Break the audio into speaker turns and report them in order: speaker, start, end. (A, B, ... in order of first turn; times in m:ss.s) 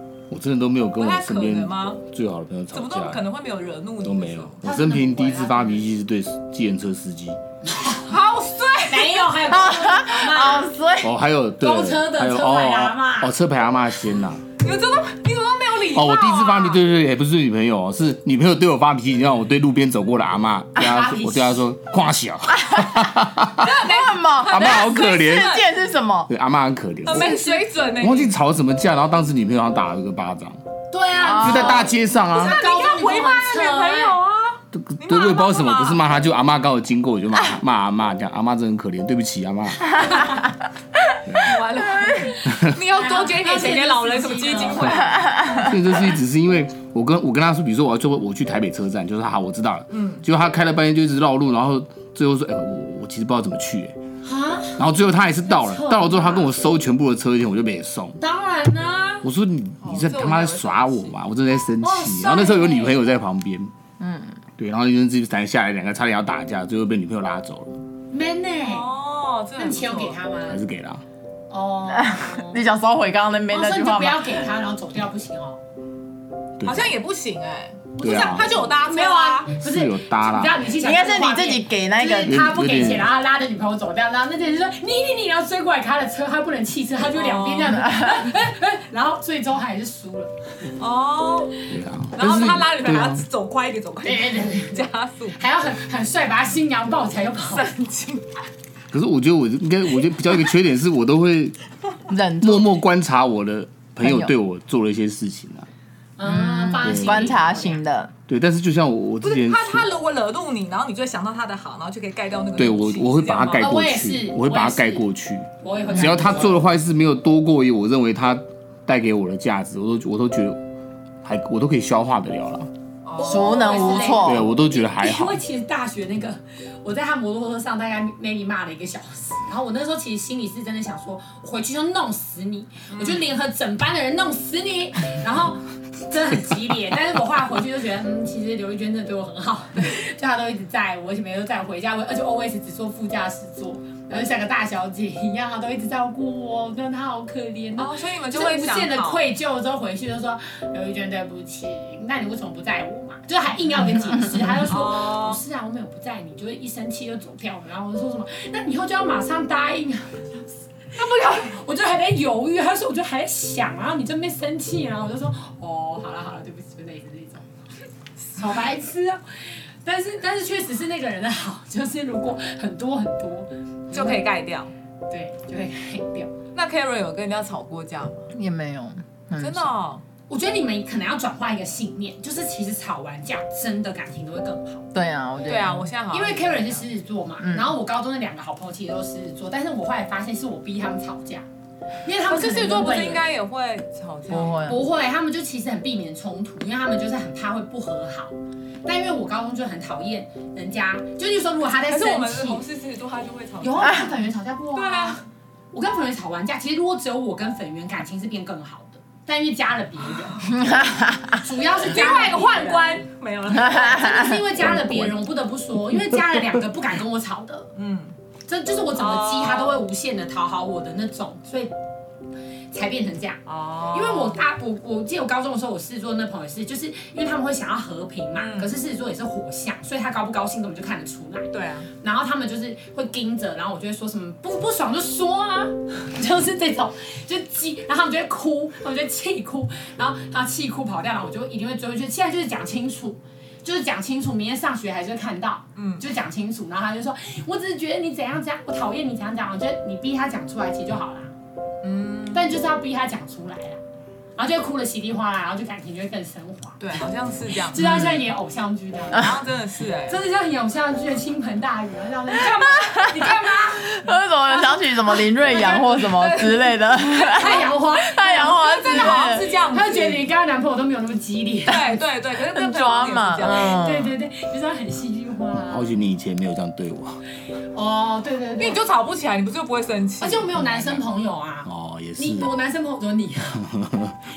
0:00.3-0:03.2 A
0:01.0-0:02.0 B
0:02.7-0:04.6 B
0:04.0-0:07.4 A
0:04.6-0:05.8 C
0:07.6-0:08.1 C
0:08.1-0:09.4 B
0:08.9-0:10.7 C
0:09.5-0:11.1 D
0:11.0-0:14.4 A
0:11.6-0:13.3 C
0:14.6-0:16.8 B
0:15.9-0:23.7 A
0:20.8-0:21.6 C
0:22.6-0:23.1 D
0:23.6-0:25.7 B
0:23.6-0:26.3 D
0:24.5-0:25.6 A
0:26.3-0:27.4 A
0:27.0-0:28.4 B
0:27.1-0:27.6 C
0:28.0-0:30.6 A
0:30.9-0:34.2 C
0:31.2-0:31.9 D
0:31.4-0:32.6 A
0:32.3-0:36.0 B
0:34.7-0:40.4 A
0:40.1-0:40.3 C
0:41.3-0:41.6 A
0:41.4-0:45.6 B
0:42.9-0:45.4 C
0:45.1-0:45.7 D
0:45.6-0:54.0 A
0:49.9-0:50.2 B
0:54.2-0:54.9 C
0:54.8-0:58.2 A
0:55.4-0:56.5 C
0:58.2-0:59.2 C
0:59.2-1:03.7 A
0:59.8-1:01.2 B
1:01.8-1:03.0 C
1:04.0-1:04.4 D
1:04.6-1:07.8 A
1:08.1-1:08.9 C
1:08.6-1:10.2 B
1:09.6-1:10.6 C
1:10.5-1:11.0 A
1:11.5-1:12.5 C
1:11.9-1:14.5 D
1:13.5-1:15.6 C
1:16.6-1:16.9 A
1:16.6-1:19.5 B
1:18.0-1:18.5 A
1:18.0-1:30.3 C
1:19.6-1:20.6 A
1:20.8-1:22.5 D
1:22.2-1:23.1 A
1:27.1-1:27.9 B
1:30.8-1:31.6 B
1:31.7-1:33.2 A
1:32.2-1:35.4 B
1:34.0-1:37.7 C
1:37.5-1:38.3 B
1:38.9-1:41.6 A
1:42.1-1:42.8 D
1:42.4-1:45.7 A
1:44.0-1:44.3 D
1:46.2-1:47.8 C
1:46.2-1:48.1 D
1:46.8-1:47.3 A
1:48.3-1:49.9 A
1:49.2-1:53.8 B
1:52.6-2:00.6 A
1:53.6-1:55.1 C
1:55.6-1:56.6 C
2:01.2-2:02.7 A
2:03.1-2:04.2 B
2:03.2-2:47.5 C
2:03.2-2:04.5 D
2:04.2-2:05.4 A
2:12.9-2:13.2 B
2:27.8-2:29.3 B
2:34.7-2:35.4 B
2:41.0-2:41.5 B
2:48.3-2:54.2 C
2:53.9-2:54.7 B
2:55.1-2:56.3 C
2:56.6-2:58.3 B
2:58.3-2:59.7 D
2:59.4-3:00.0 B
3:00.3-3:04.8 C
3:04.9-3:05.9 D
3:05.5-3:06.9 B
3:06.1-3:11.5 C
3:07.4-3:07.7 D
3:12.0-3:13.2 C
3:12.3-3:14.8 B
3:14.3-3:14.8 D
3:14.6-3:22.6 C
3:21.9-3:24.2 B
3:23.6-3:30.7 C
3:24.8-3:25.2 B
3:30.5-3:31.4 D
3:31.3-3:33.0 C
3:31.8-3:34.2 B
3:33.5-3:34.4 D
3:33.6-3:37.7 C
3:34.6-3:35.1 A
3:37.8-3:38.2 B
3:38.5-3:41.7 C
3:39.0-3:39.8 B
3:42.7-4:11.3 C
3:43.5-3:44.4 B
3:48.4-3:48.8 B
3:51.5-3:51.9 B
4:05.8-4:06.0 B
4:11.8-4:12.5 B
4:12.3-4:13.8 C
4:14.4-4:17.0 C
4:16.8-4:18.0 B
4:17.7-4:19.3 C
4:19.1-4:20.2 B
4:20.1-4:24.0 C
4:22.8-4:23.3 D
4:23.9-4:29.5 D
4:24.7-4:27.5 B
4:27.3-4:31.8 C
4:28.3-4:30.2 B
4:31.7-4:33.8 B
4:32.5-4:34.2 D
4:33.4-4:36.0 C
4:35.6-4:37.2 A
4:37.7-4:38.8 C
4:38.6-4:40.5 B
4:40.2-4:43.7 C
4:40.6-4:41.0 A
4:41.7-4:42.5 A
4:43.7-4:44.1 A